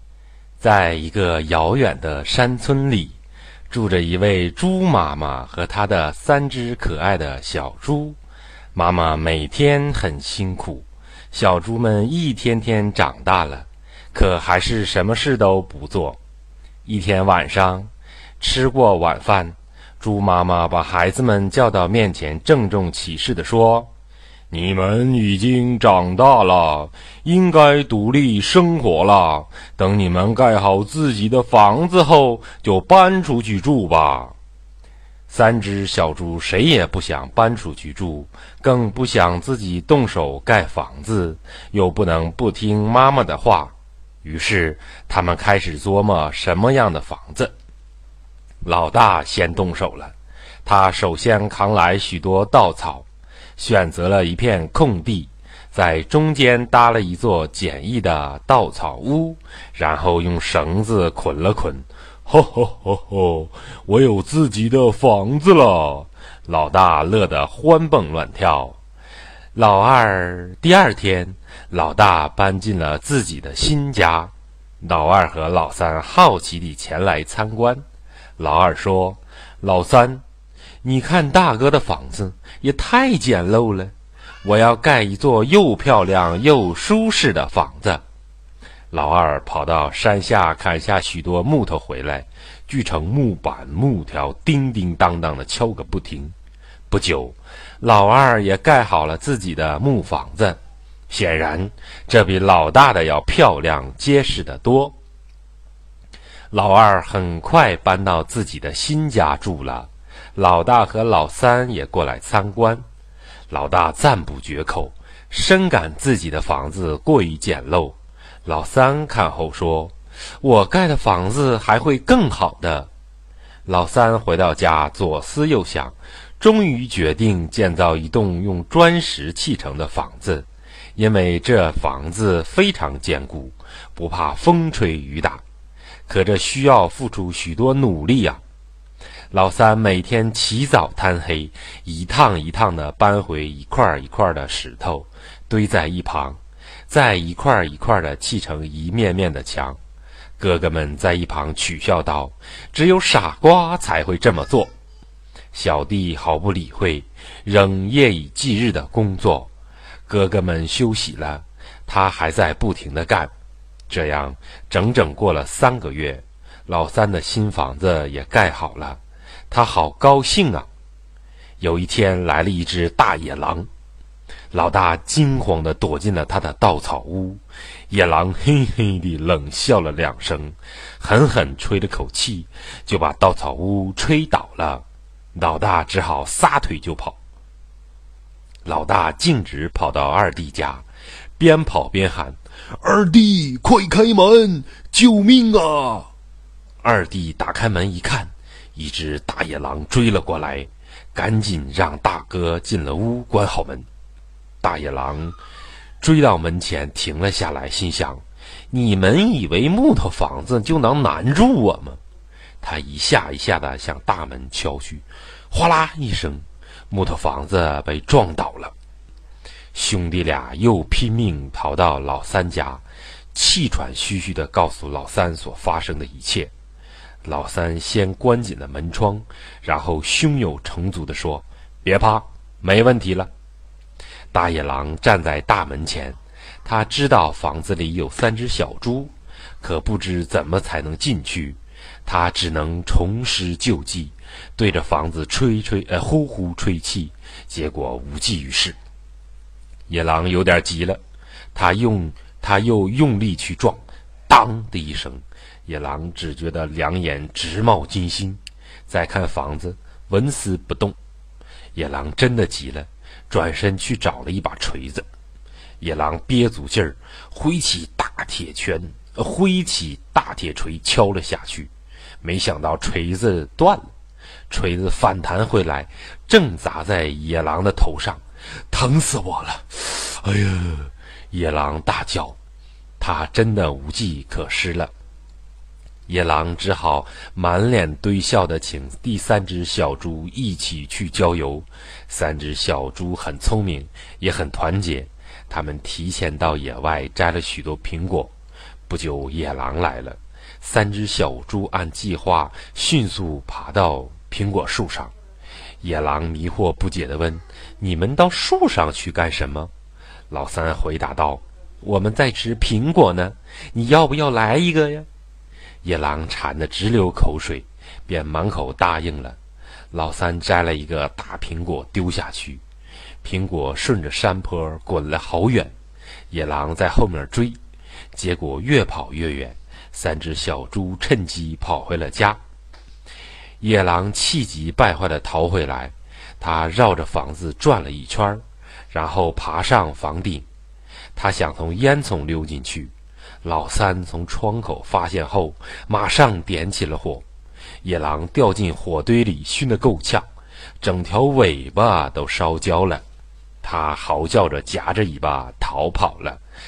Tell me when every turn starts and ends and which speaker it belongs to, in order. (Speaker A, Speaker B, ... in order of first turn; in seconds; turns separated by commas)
Speaker A: 0.6-3.2, Speaker A: 3.7-8.2, Speaker A: 8.7-16.2, Speaker A: 16.8-23.9, Speaker A: 24.5-34.3, Speaker A: 35.3-47.5, Speaker A: 48.6-53.0, Speaker A: 53.6-68.8, Speaker A: 69.5-77.8, Speaker A: 78.4-80.2, Speaker A: 80.8-88.0, Speaker A: 88.9-96.3, Speaker A: 96.9-105.0, Speaker A: 106.5-112.8, Speaker A: 113.5-122.9, Speaker A: 123.7-135.4, Speaker A: 136.1-138.4, Speaker A: 139.3-146.4, Speaker A: 146.9-149.8, Speaker A: 150.4-154.7, Speaker A: 155.5-159.5, Speaker A: 160.1-163.3, Speaker A: 163.9-169.0, Speaker A: 169.5-170.7, Speaker A: 171.6-173.7, Speaker A: 174.5-187.2, Speaker A: 188.6-190.8, Speaker A: 191.4-196.1, Speaker A: 196.8-203.8, Speaker A: 204.6-205.4, Speaker A: 206.0-212.0, Speaker A: 212.6-218.7, Speaker A: 219.7-226.5, Speaker A: 227.2-233.3, Speaker A: 234.3-248.8, Speaker A: 249.9-251.0, Speaker A: 251.5-261.0, Speaker A: 261.7-265.1, Speaker A: 265.8-271.7, Speaker A: 272.2-273.9, Speaker A: 274.5-282.4, Speaker A: 283.0-284.9, Speaker A: 286.1-298.3, Speaker A: 298.9-305.1, Speaker A: 305.8-309.7, Speaker A: 310.3-315.1, Speaker A: 315.8-319.4, Speaker A: 319.9-322.6, Speaker A: 323.2-325.7, Speaker A: 326.3-327.6, Speaker A: 328.1-332.4, Speaker A: 333.6-340.4, Speaker A: 341.1-347.2, Speaker A: 347.8-350.3, Speaker A: 350.8-353.0, Speaker A: 353.6-356.4